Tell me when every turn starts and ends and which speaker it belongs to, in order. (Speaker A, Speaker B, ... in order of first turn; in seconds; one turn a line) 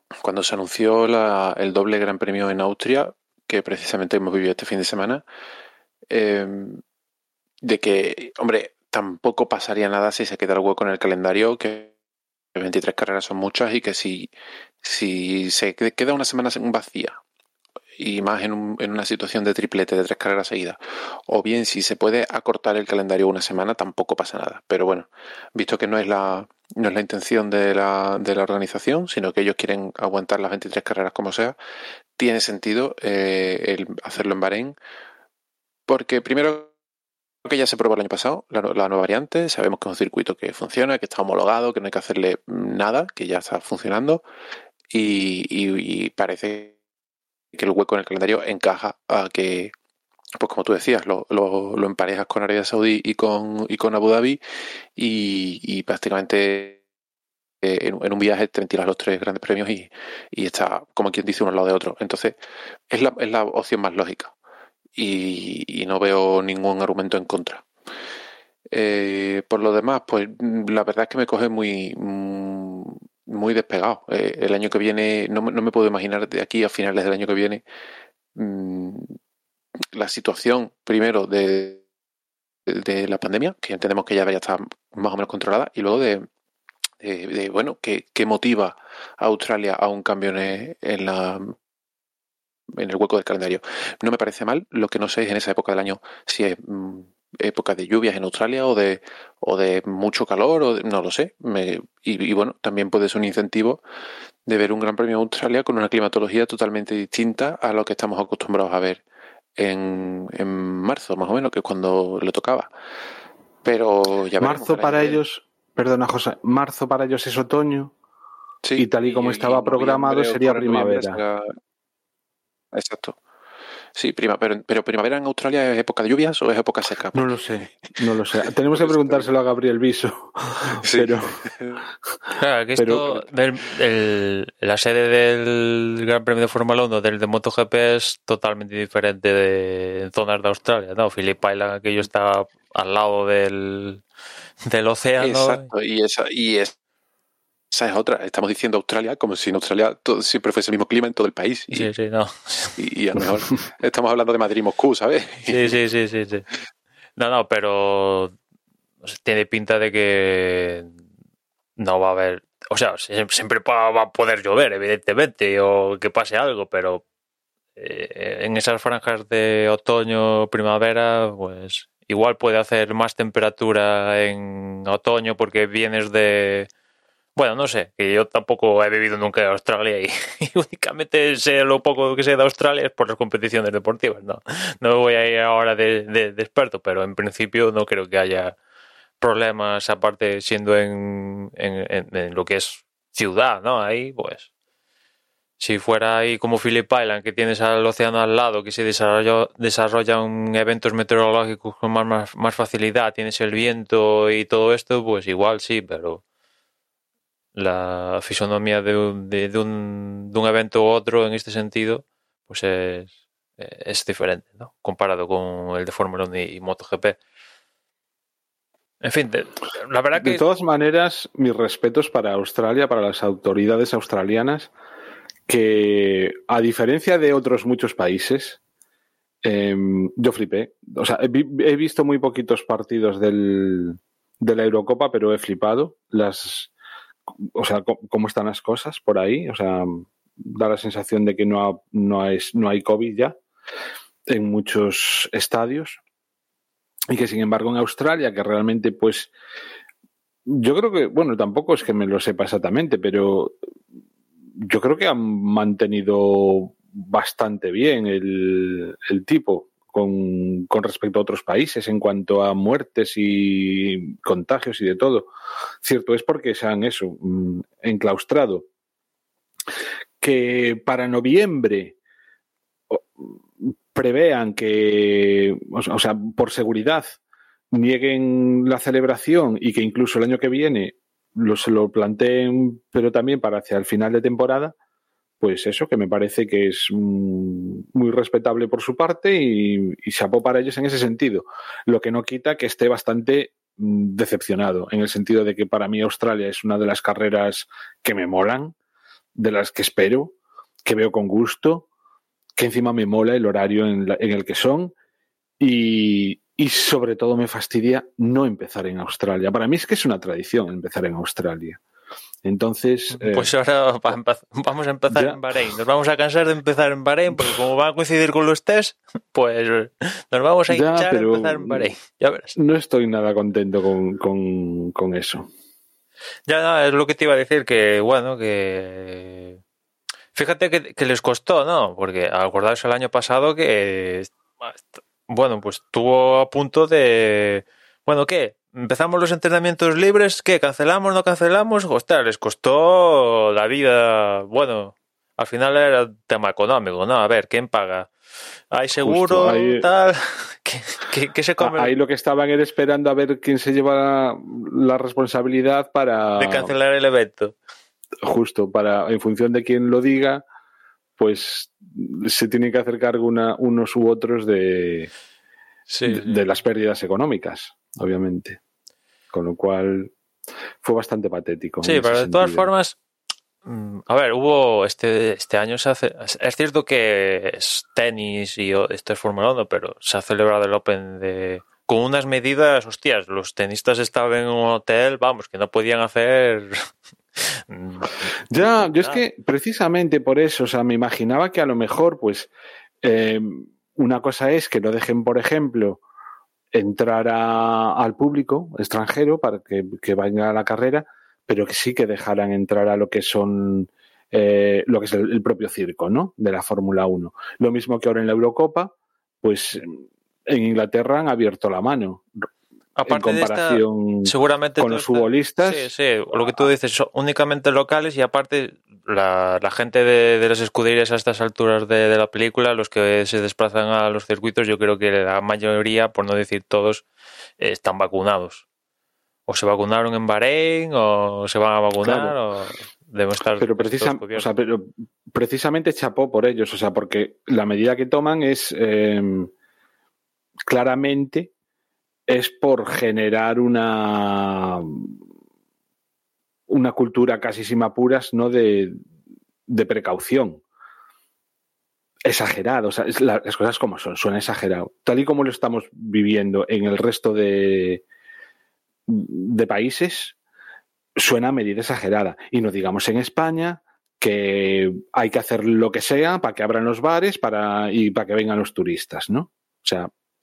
Speaker A: 0.2-5.2
Speaker A: 6.1-6.8
Speaker A: 7.6-11.9
Speaker A: 12.6-14.3
Speaker A: 14.8-17.2
Speaker A: 18.0-31.6
Speaker A: 32.2-34.8
Speaker A: 35.9-36.7
Speaker A: 37.5-44.2
Speaker A: 44.9-46.8
Speaker A: 47.5-49.7
Speaker A: 50.4-54.4
Speaker A: 55.0-56.8
Speaker A: 57.6-62.4
Speaker A: 62.9-64.3
Speaker A: 65.0-67.7
Speaker A: 68.7-77.6
Speaker A: 78.3-79.2
Speaker A: 79.9-81.8
Speaker A: 82.7-86.3
Speaker A: 87.0-91.6
Speaker A: 92.8-103.8
Speaker A: 104.5-109.0
Speaker A: 109.6-112.7
Speaker A: 113.7-115.2
Speaker B: 114.4-117.9
Speaker A: 118.6-121.5
Speaker B: 118.8-121.2
Speaker A: 122.7-123.2
Speaker A: 124.0-127.3
Speaker B: 127.1-131.4
Speaker A: 128.7-129.3
Speaker A: 130.8-131.8
Speaker C: 132.4-144.0
Speaker B: 132.8-133.1
Speaker C: 144.7-145.7
Speaker A: 145.2-146.7
Speaker A: 147.7-151.9
Speaker C: 151.7-152.8
Speaker A: 152.8-155.7
Speaker C: 155.5-156.5
Speaker C: 157.2-158.3
Speaker C: 159.1-160.9
Speaker C: 161.8-167.0
Speaker C: 167.8-176.7
Speaker C: 177.4-188.6
Speaker C: 189.2-194.5
Speaker C: 195.6-206.2
Speaker C: 207.6-217.2
Speaker C: 219.0-220.4
Speaker B: 220.2-224.7
Speaker B: 225.5-228.6
Speaker B: 229.4-236.7
Speaker B: 237.4-243.4
Speaker B: 244.3-246.0
Speaker B: 247.1-249.3
Speaker B: 250.5-253.6
Speaker B: 254.6-265.3
Speaker B: 265.8-268.7
Speaker B: 270.2-272.0
Speaker B: 272.9-277.2
Speaker B: 277.7-284.8
Speaker B: 285.4-298.8
Speaker B: 299.4-301.9
Speaker B: 302.6-304.9
Speaker B: 305.6-311.8
Speaker B: 312.4-313.5
Speaker C: 313.1-322.6
Speaker B: 315.1-315.4
Speaker B: 320.7-321.9
Speaker B: 322.6-325.5
Speaker C: 326.5-329.6
Speaker C: 330.3-348.1
Speaker C: 348.7-351.9
Speaker B: 349.0-349.9
Speaker B: 351.6-356.7
Speaker C: 356.4-357.6
Speaker B: 358.2-360.4
Speaker B: 361.2-365.1
Speaker C: 365.9-366.4
Speaker B: 366.1-368.6
Speaker B: 369.3-370.1
Speaker B: 370.8-372.7
Speaker C: 371.8-373.0
Speaker C: 373.6-389.2
Speaker B: 388.5-392.5
Speaker B: 393.0-396.0
Speaker B: 396.7-412.2
Speaker C: 413.0-427.1
Speaker B: 413.1-416.7
Speaker C: 427.6-428.6
Speaker C: 429.5-434.5
Speaker B: 432.0-432.4
Speaker B: 433.6-439.5
Speaker B: 440.7-441.5
Speaker B: 442.3-445.1
Speaker B: 446.7-449.0
Speaker B: 449.7-450.6
Speaker B: 452.2-458.0
Speaker B: 459.1-460.4
Speaker B: 461.2-470.1